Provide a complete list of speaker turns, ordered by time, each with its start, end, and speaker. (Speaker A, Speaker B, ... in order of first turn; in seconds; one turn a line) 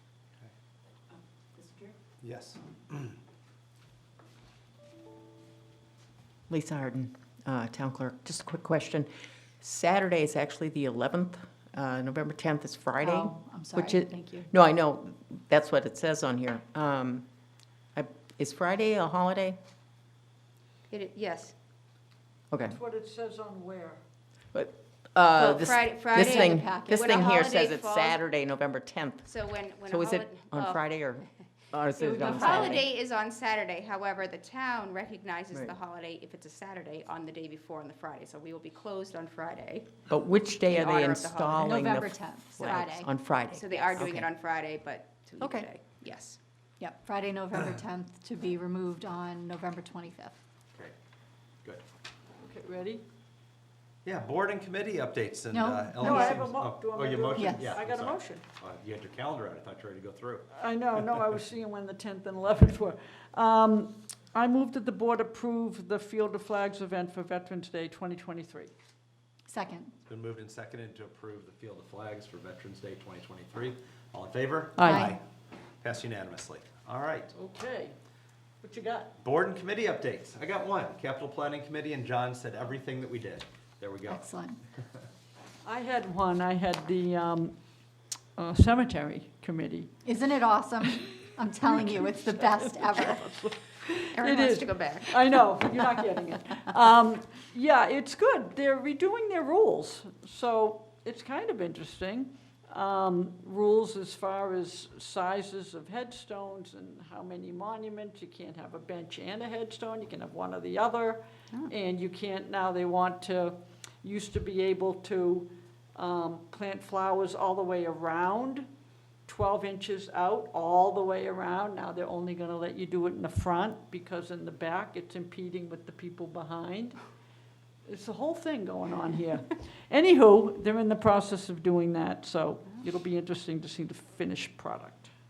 Speaker A: 2.2-3.2
Speaker B: 6.5-9.1
Speaker B: 9.6-17.2
Speaker C: 13.0-14.5
Speaker B: 17.9-19.6
Speaker D: 20.9-21.5
Speaker B: 22.5-22.8
Speaker E: 22.7-24.0
Speaker B: 24.5-32.9
Speaker D: 25.4-28.2
Speaker C: 26.2-27.1
Speaker D: 29.3-30.9
Speaker C: 32.0-32.8
Speaker D: 32.2-40.0
Speaker B: 40.1-44.3
Speaker D: 40.7-41.7
Speaker C: 41.6-43.1
Speaker D: 43.5-46.4
Speaker B: 45.4-45.7
Speaker C: 46.8-50.4
Speaker E: 52.4-53.0
Speaker A: 54.0-60.5
Speaker C: 55.5-56.5
Speaker E: 56.0-58.4
Speaker C: 57.4-57.8
Speaker E: 60.5-68.7
Speaker C: 69.5-70.0
Speaker A: 70.1-75.2
Speaker E: 74.8-75.1
Speaker C: 74.8-75.2
Speaker A: 75.8-77.3
Speaker E: 77.3-78.0
Speaker E: 78.6-79.1
Speaker A: 79.2-84.3
Speaker C: 84.1-84.6
Speaker E: 85.7-87.6
Speaker E: 88.4-89.9
Speaker C: 90.0-93.2
Speaker E: 91.7-118.7
Speaker D: 94.1-95.1
Speaker E: 119.3-127.0
Speaker E: 127.9-135.1